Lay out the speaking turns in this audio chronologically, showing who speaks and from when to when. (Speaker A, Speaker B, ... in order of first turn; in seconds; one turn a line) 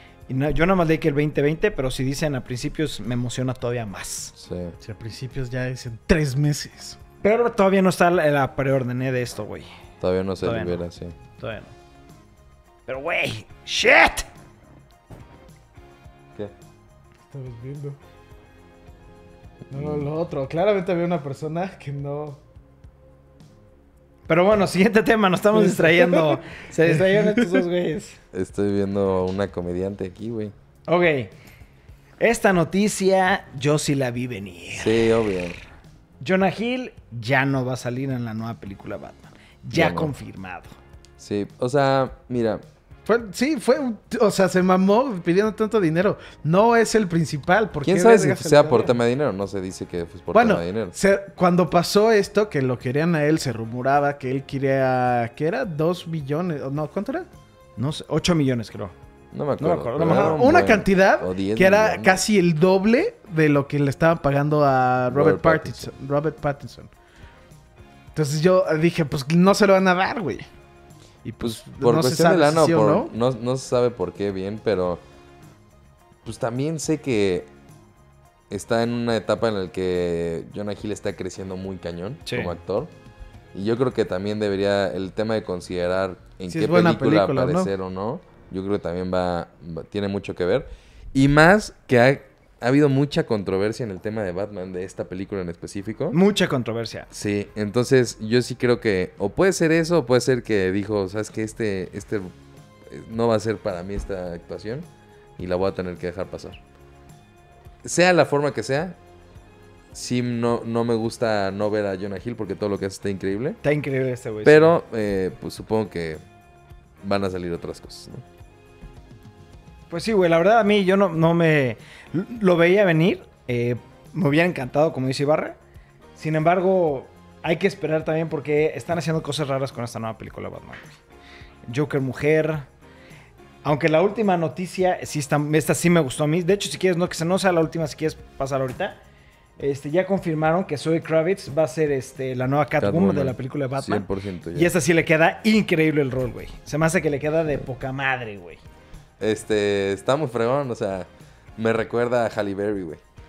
Speaker A: 0.3-4.3
Speaker B: 4.3-4.7
Speaker C: 4.8-7.0
Speaker A: 7.2-9.7
Speaker B: 10.0-11.1
Speaker A: 10.4-10.8
Speaker A: 11.4-11.7
Speaker A: 12.9-14.3
Speaker C: 17.3-18.0
Speaker B: 19.7-20.1
Speaker C: 19.7-22.4
Speaker A: 24.3-28.2
Speaker C: 25.5-27.6
Speaker B: 28.3-30.5
Speaker A: 30.9-31.3
Speaker A: 32.2-35.1
Speaker B: 34.7-35.6
Speaker A: 36.2-40.7
Speaker B: 39.7-40.1
Speaker B: 41.2-42.6
Speaker C: 43.0-49.0
Speaker B: 47.8-50.9
Speaker C: 50.3-57.3
Speaker A: 57.8-58.9
Speaker B: 59.3-62.2
Speaker A: 59.6-60.4
Speaker C: 60.0-66.9
Speaker B: 65.1-65.9
Speaker C: 68.1-70.5
Speaker C: 71.2-73.1
Speaker B: 71.4-75.0
Speaker B: 76.2-77.5
Speaker B: 78.5-82.9
Speaker A: 82.2-82.5
Speaker B: 83.5-96.2
Speaker C: 86.5-87.7
Speaker A: 96.1-97.1
Speaker B: 97.1-102.3
Speaker B: 102.8-104.9
Speaker B: 105.4-106.6
Speaker B: 107.8-109.0
Speaker B: 109.9-113.6
Speaker A: 113.6-114.8
Speaker B: 114.4-116.2
Speaker B: 117.0-118.2
Speaker A: 119.9-125.5
Speaker A: 126.2-130.9
Speaker A: 131.7-132.7
Speaker A: 133.6-139.0
Speaker A: 139.6-148.6
Speaker B: 142.8-144.7
Speaker B: 149.2-153.0